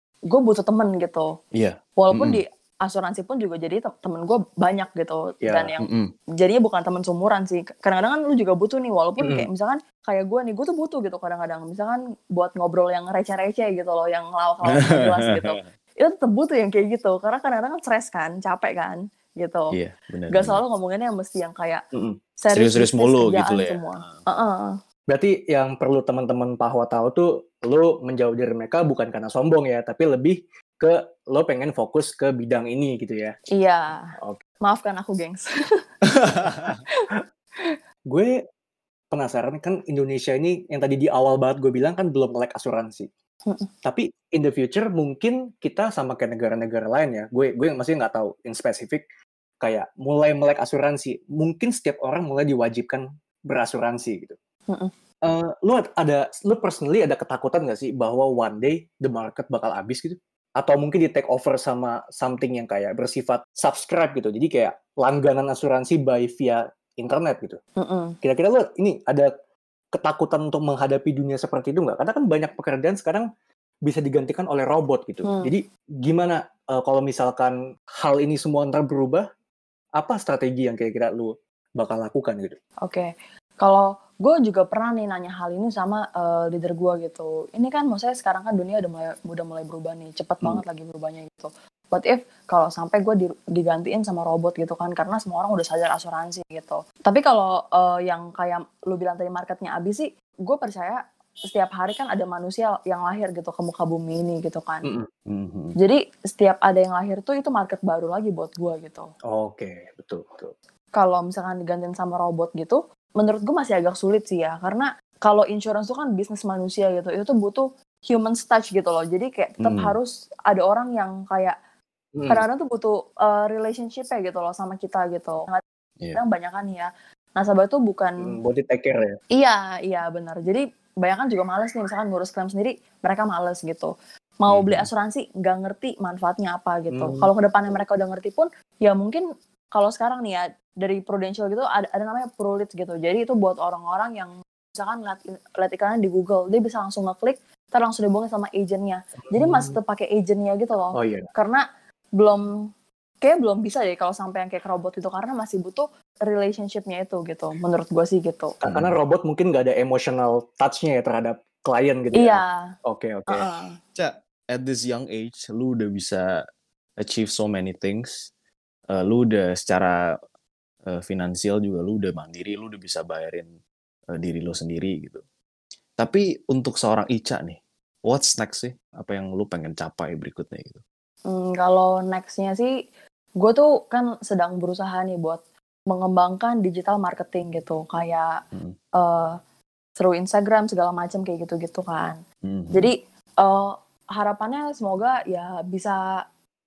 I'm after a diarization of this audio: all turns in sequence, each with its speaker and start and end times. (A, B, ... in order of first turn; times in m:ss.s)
0:00.3-0:01.3 A
0:01.6-0:02.4 B
0:02.0-0:05.9 A
0:05.4-0:05.7 C
0:05.8-0:06.1 B
0:06.4-0:19.7 A
0:09.2-0:09.5 C
0:19.7-0:20.6 B
0:20.3-0:21.8 A
0:22.4-0:24.7 A
0:22.5-0:24.2 B
0:25.1-0:33.4 C
0:33.5-0:34.1 A
0:34.6-0:35.5 A
0:36.4-0:36.8 A
0:36.5-0:36.8 B
0:39.1-0:43.1 C
0:43.8-0:49.0 C
0:49.6-0:54.3 C
0:55.2-1:07.6 C
1:07.8-1:08.1 A
1:08.2-1:09.3 C
1:09.9-1:13.2 C
1:13.8-1:19.2 C
1:15.2-1:15.5 A
1:20.0-1:22.6 C
1:22.8-1:44.8 A
1:45.3-1:45.7 B
1:45.8-1:49.1 A
1:49.3-1:50.5 C
1:51.0-2:01.6 A
1:59.6-2:00.0 B
2:02.1-2:02.4 C
2:02.3-2:05.6 A
2:06.1-2:08.3 A
2:08.2-2:09.2 C
2:09.3-2:31.6 A
2:14.5-2:14.9 B
2:16.9-2:17.3 C
2:29.3-2:29.7 C
2:30.9-2:31.3 C
2:32.2-2:32.4 A
2:33.2-2:38.6 A
2:38.6-2:43.5 C
2:38.6-2:38.9 B
2:42.1-2:42.6 A
2:43.3-2:43.7 A
2:44.0-2:46.2 B
2:47.0-2:48.3 B
2:48.9-2:50.0 B
2:50.9-2:53.5 B
2:54.2-2:55.2 B
2:56.0-3:00.8 B
3:01.3-3:02.7 A
3:03.4-3:08.3 A
3:09.0-3:09.3 A
3:10.0-3:12.2 A
3:12.4-3:12.9 B
3:12.7-3:16.1 A